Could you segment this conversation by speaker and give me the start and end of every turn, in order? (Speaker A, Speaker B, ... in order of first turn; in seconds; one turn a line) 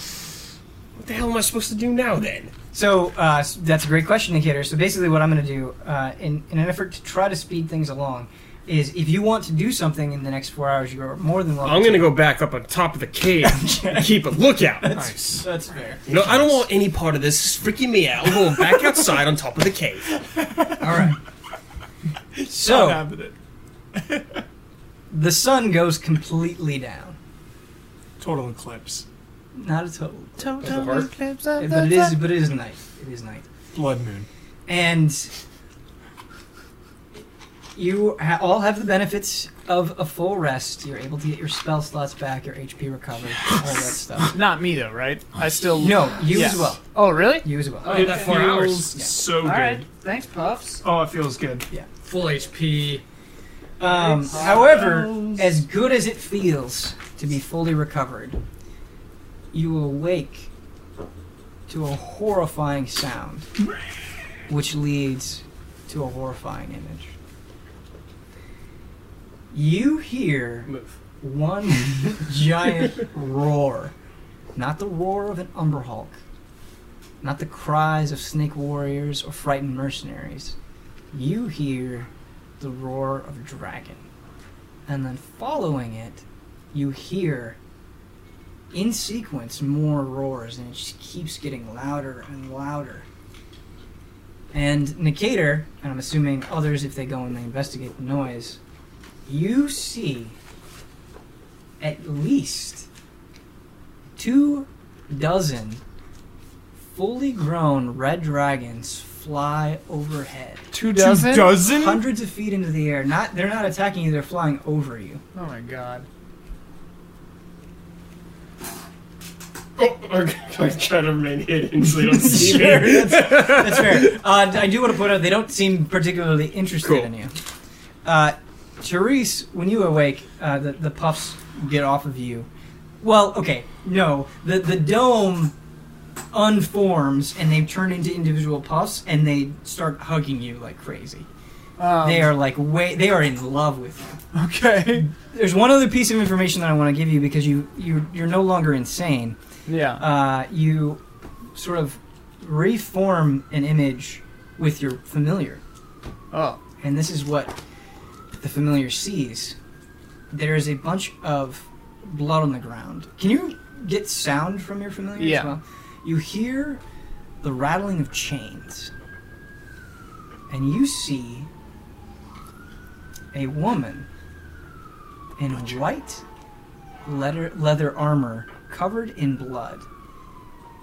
Speaker A: 1.0-2.5
Speaker B: 2.7-12.2
Speaker A: 11.6-14.9
Speaker B: 13.4-14.1
Speaker B: 14.8-16.1
Speaker C: 14.9-15.4
Speaker A: 16.1-20.1
Speaker B: 20.8-21.2
Speaker C: 22.4-23.3
Speaker B: 22.4-23.1
Speaker B: 25.1-27.2
Speaker C: 28.2-29.1
Speaker B: 29.6-30.5
Speaker D: 30.4-32.3
Speaker A: 30.6-31.1
Speaker B: 31.6-33.5
Speaker C: 33.7-34.3
Speaker B: 34.7-35.3
Speaker B: 37.8-44.4
Speaker D: 44.3-48.2
Speaker B: 45.8-48.2
Speaker C: 47.9-49.9
Speaker E: 47.9-48.9
Speaker D: 49.4-50.8
Speaker C: 50.8-51.7
Speaker E: 52.0-53.0
Speaker B: 53.8-58.4
Speaker D: 53.9-54.8
Speaker C: 54.6-55.4
Speaker B: 59.5-60.5
Speaker B: 61.7-63.5
Speaker B: 64.5-67.1
Speaker B: 69.5-70.7
Speaker A: 70.7-71.0
Speaker B: 71.2-73.9
Speaker B: 74.5-76.2
Speaker B: 77.2-80.6
Speaker B: 81.1-84.1
Speaker B: 84.9-87.6
Speaker B: 88.7-93.1
Speaker B: 94.5-98.6
Speaker B: 99.3-100.4
Speaker B: 101.8-102.9
Speaker B: 104.2-105.8
Speaker B: 106.9-110.7
Speaker D: 110.7-111.6
Speaker C: 110.7-112.0
Speaker B: 111.6-115.2
Speaker D: 115.3-116.1
Speaker A: 119.8-124.2
Speaker B: 122.1-127.3
Speaker A: 126.8-127.1
Speaker B: 128.1-132.5
Speaker B: 133.0-135.6
Speaker B: 136.3-141.3
Speaker D: 141.8-142.3
Speaker B: 142.0-144.2
Speaker D: 144.3-145.1
Speaker B: 145.0-149.4
Speaker D: 149.7-150.0
Speaker B: 150.0-151.0
Speaker B: 151.6-155.6
Speaker D: 156.3-156.6
Speaker B: 156.8-157.6
Speaker B: 158.4-159.6
Speaker B: 160.3-166.8
Speaker D: 165.2-165.6
Speaker B: 167.4-168.9
Speaker B: 170.5-171.5
Speaker B: 173.3-174.1
Speaker B: 175.4-176.2
Speaker B: 177.1-179.9